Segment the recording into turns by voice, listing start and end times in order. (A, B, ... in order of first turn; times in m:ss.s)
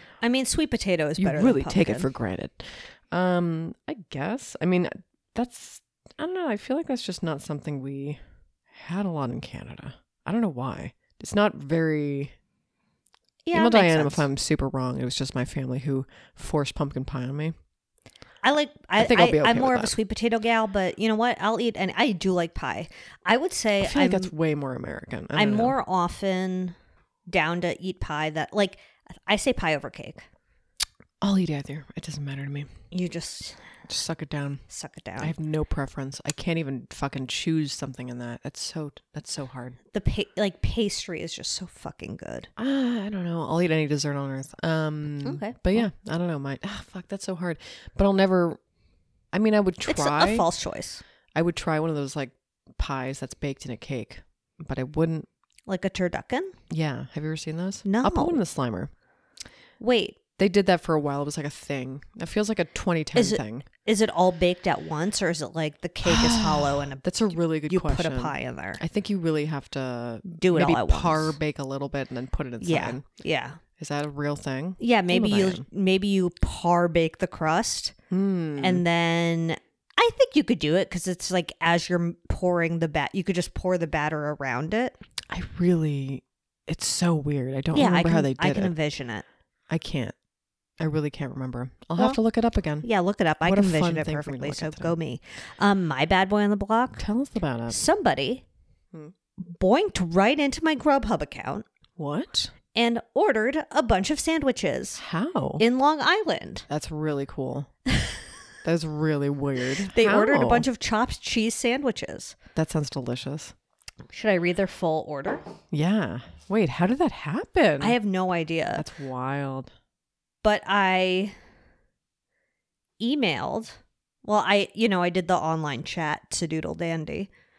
0:00.2-0:02.1 A
0:01.2-0:12.3 B
0:13.4-0:14.2 A
0:13.5-0:17.5 B
0:18.4-0:24.3 A
0:19.0-0:19.9 B
0:23.8-0:25.8 B
0:25.3-0:26.8 A
0:27.3-0:30.2 A
0:31.2-0:32.7 B
0:32.9-0:33.6 A
0:33.9-0:34.6 B
0:34.7-0:35.3 A
0:35.2-0:39.8 B
0:39.9-0:42.5 A
0:42.6-0:48.6 B
0:45.2-0:45.8 A
0:49.3-0:50.5 B
0:49.9-0:51.0 A
0:51.3-0:55.3 B
0:55.7-0:56.5 A
0:56.7-0:58.9 B
0:57.8-0:58.4 A
0:59.8-1:00.2 A
1:00.4-1:03.6 B
1:03.1-1:08.8 A
1:06.0-1:13.0 B
1:10.2-1:11.4 A
1:12.6-1:13.6 A
1:13.8-1:15.6 B
1:14.8-1:17.9 A
1:18.1-1:18.8 B
1:18.6-1:25.0 A
1:25.3-1:28.7 B
1:27.7-1:29.2 A
1:29.7-1:30.1 B
1:30.8-1:32.9 B
1:32.8-1:37.0 A
1:33.4-1:34.9 B
1:37.0-1:37.8 B
1:37.7-1:38.4 A
1:39.4-1:41.6 A
1:42.0-1:42.5 B
1:42.7-1:45.0 A
1:45.0-1:45.6 B
1:45.6-1:46.7 A
1:46.7-1:47.7 B
1:48.6-1:50.7 B
1:49.9-1:52.4 A
1:52.5-1:53.5 B
1:54.1-1:55.4 A
1:55.7-1:58.0 B
1:57.8-1:58.8 A
1:58.7-1:59.7 B
2:00.4-2:01.3 A
2:03.0-2:07.3 A